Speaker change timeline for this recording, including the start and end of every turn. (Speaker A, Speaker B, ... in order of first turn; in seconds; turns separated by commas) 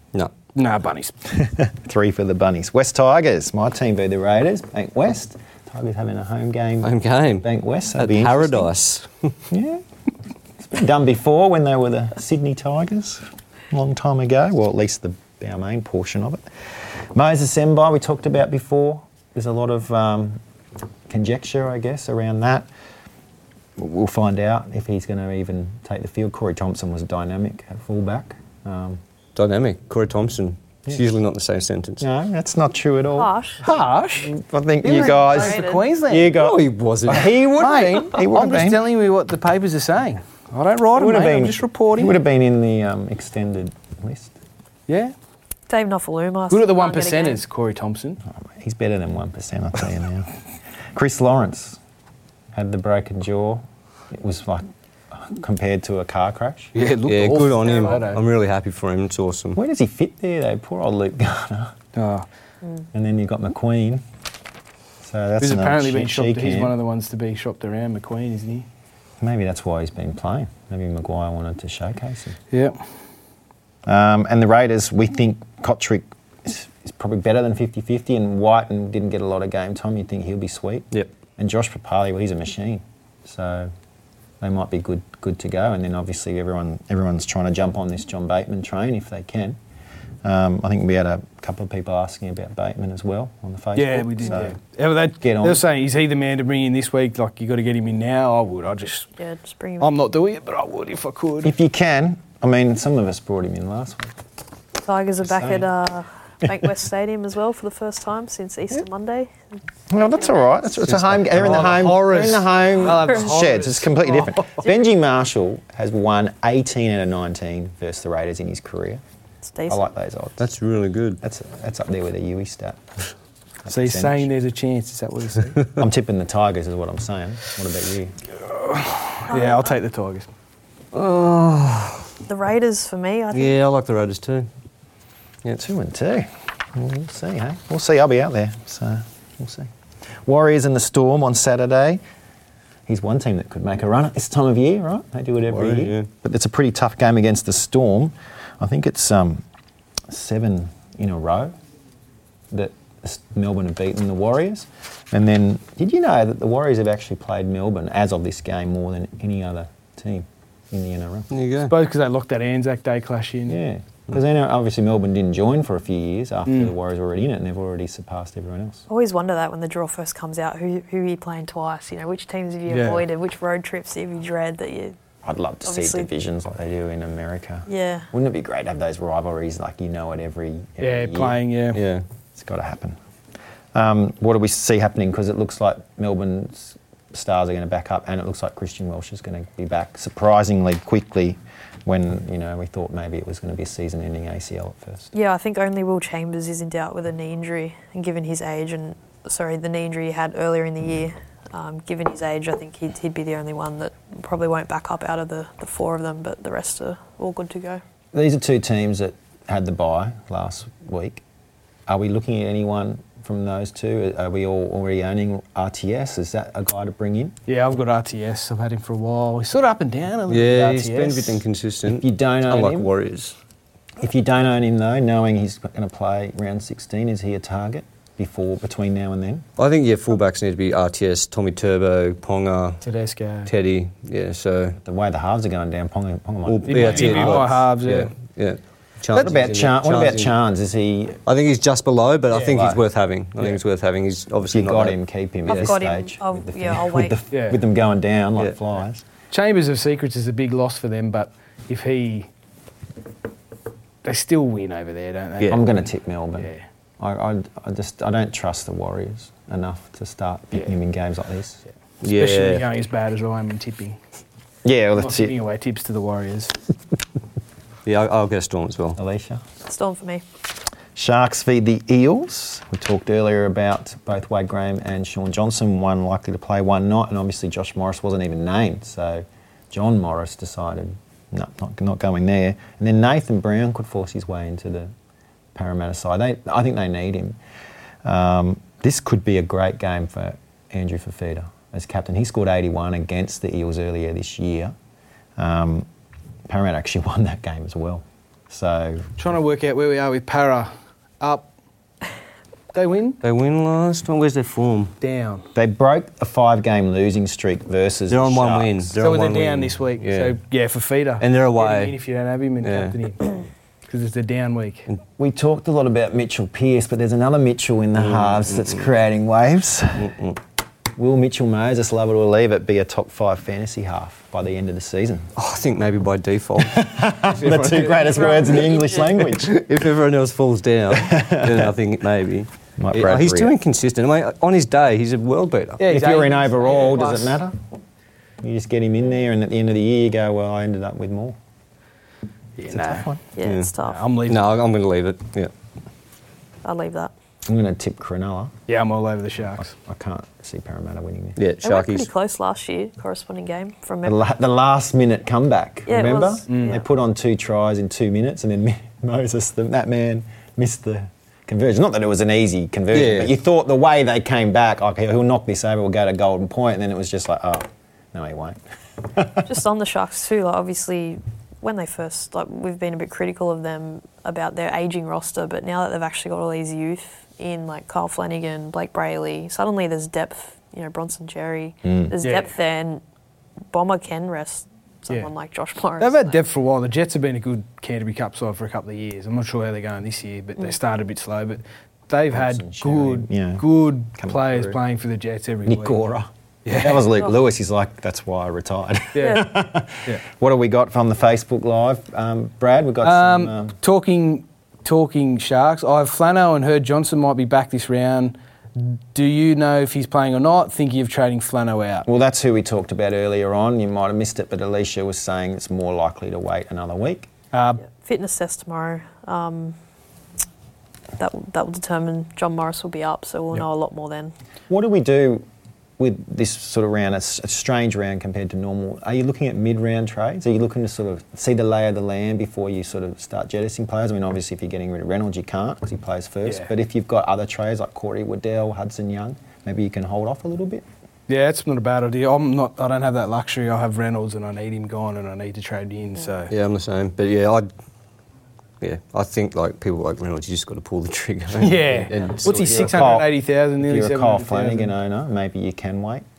Speaker A: 0.6-1.1, Speaker B: 1.3-8.7, Speaker C: 6.8-9.4, Speaker B: 9.5-9.8, Speaker B: 10.6-16.5, Speaker B: 17.1-20.4, Speaker B: 21.1-22.7, Speaker B: 23.8-29.0, Speaker C: 29.4-32.0, Speaker B: 32.0-33.3, Speaker D: 33.2-33.6, Speaker A: 33.6-36.4, Speaker B: 34.2-38.8, Speaker D: 35.2-35.8, Speaker C: 36.3-37.5, Speaker A: 37.6-42.1, Speaker B: 40.9-44.3, Speaker A: 44.9-45.1, Speaker D: 45.7-47.4, Speaker A: 46.5-48.2, Speaker B: 48.3-50.4, Speaker B: 50.9-51.8, Speaker B: 52.5-56.7, Speaker A: 56.8-58.2, Speaker C: 57.0-59.6, Speaker B: 59.5-61.8, Speaker A: 62.0-62.3, Speaker B: 62.9-64.0, Speaker B: 65.0-66.8, Speaker A: 65.4-68.7, Speaker B: 69.2-72.4, Speaker A: 72.5-72.8, Speaker B: 73.9-83.7, Speaker B: 84.4-89.6, Speaker B: 90.2-94.6, Speaker A: 93.8-99.1, Speaker B: 95.2-95.6, Speaker D: 99.2-99.9, Speaker A: 99.8-101.5, Speaker B: 101.4-104.2, Speaker D: 104.8-109.3, Speaker B: 105.2-105.7, Speaker B: 109.9-119.0, Speaker C: 110.9-111.9, Speaker A: 111.4-114.7, Speaker D: 119.5-119.9, Speaker B: 119.7-120.5, Speaker C: 120.4-121.2, Speaker B: 121.2-123.1, Speaker B: 123.7-124.3, Speaker A: 123.7-125.7, Speaker B: 125.8-128.2, Speaker A: 128.4-130.3, Speaker D: 129.3-129.7, Speaker C: 130.9-132.1, Speaker D: 132.3-133.6, Speaker C: 133.3-134.5, Speaker B: 135.5-139.7, Speaker B: 140.2-142.0, Speaker B: 142.9-149.4, Speaker C: 145.5-146.1, Speaker B: 150.1-151.5, Speaker B: 152.5-161.3, Speaker C: 161.3-161.7, Speaker A: 161.7-163.6, Speaker B: 163.5-168.8, Speaker A: 166.5-166.7, Speaker D: 168.9-175.0, Speaker A: 172.7-173.1, Speaker B: 175.2-181.4, Speaker D: 175.7-176.1, Speaker D: 177.7-178.1, Speaker A: 180.8-181.8, Speaker C: 181.7-182.1, Speaker B: 182.3-183.0, Speaker B: 183.7-195.1, Speaker D: 195.1-207.8, Speaker B: 208.1-211.2, Speaker B: 211.9-217.3, Speaker A: 217.5-221.4, Speaker C: 220.3-223.4, Speaker B: 221.9-222.9, Speaker B: 224.0-229.4, Speaker C: 229.6-232.8, Speaker A: 232.8-233.5, Speaker C: 233.5-234.8, Speaker B: 234.8-237.6, Speaker C: 236.5-240.3, Speaker A: 236.7-238.1, Speaker B: 239.1-241.2, Speaker C: 241.3-245.0, Speaker B: 242.3-242.8, Speaker B: 244.5-249.0, Speaker D: 245.5-247.2, Speaker A: 247.3-247.6, Speaker A: 249.3-252.3, Speaker A: 254.0-255.6, Speaker B: 255.5-261.6, Speaker A: 256.4-256.6, Speaker C: 262.0-262.6, Speaker A: 262.1-264.0, Speaker B: 264.6-265.4, Speaker A: 265.0-266.5, Speaker C: 267.9-269.0, Speaker B: 269.0-269.4, Speaker D: 269.6-270.2, Speaker B: 270.9-284.9, Speaker B: 285.6-287.4, Speaker B: 288.0-294.7, Speaker B: 295.4-295.9, Speaker B: 296.5-299.1, Speaker A: 299.2-301.5, Speaker A: 302.7-303.2, Speaker C: 303.2-304.9, Speaker A: 305.0-305.4, Speaker B: 305.6-308.9, Speaker C: 308.1-310.4, Speaker A: 309.0-314.9, Speaker C: 311.2-311.9, Speaker C: 312.6-313.0, Speaker B: 315.2-320.2, Speaker C: 318.1-318.8, Speaker C: 320.0-320.4, Speaker B: 321.0-325.3, Speaker C: 325.4-327.8, Speaker B: 326.6-329.6, Speaker A: 327.3-328.7, Speaker D: 328.2-329.0, Speaker C: 329.3-335.8, Speaker B: 330.9-331.7, Speaker B: 332.8-333.6, Speaker A: 335.8-337.4, Speaker B: 335.9-337.6, Speaker B: 338.4-341.4, Speaker A: 342.6-343.1, Speaker B: 342.7-343.2, Speaker D: 343.4-344.0, Speaker C: 343.4-343.7, Speaker A: 343.9-344.6, Speaker C: 344.3-345.5, Speaker D: 346.6-347.1, Speaker B: 347.5-348.5, Speaker A: 348.7-349.7, Speaker B: 349.7-351.4, Speaker C: 351.4-352.1, Speaker D: 351.6-354.2, Speaker B: 354.0-369.5, Speaker D: 355.9-356.9, Speaker A: 356.5-356.8, Speaker C: 362.9-363.3, Speaker D: 369.4-383.0, Speaker B: 381.8-382.2, Speaker A: 382.2-382.5, Speaker D: 383.7-386.4, Speaker A: 386.0-396.0, Speaker B: 392.3-394.8, Speaker B: 395.7-403.8, Speaker A: 396.6-397.1, Speaker A: 399.1-399.5, Speaker A: 403.0-412.1, Speaker B: 412.1-417.3, Speaker A: 417.5-417.8, Speaker D: 417.8-419.8, Speaker D: 421.2-424.3, Speaker B: 424.7-425.5, Speaker B: 426.0-440.9, Speaker A: 436.4-436.7, Speaker A: 441.3-446.5, Speaker C: 446.5-447.7, Speaker C: 448.8-453.1, Speaker A: 451.6-454.9, Speaker B: 452.4-456.2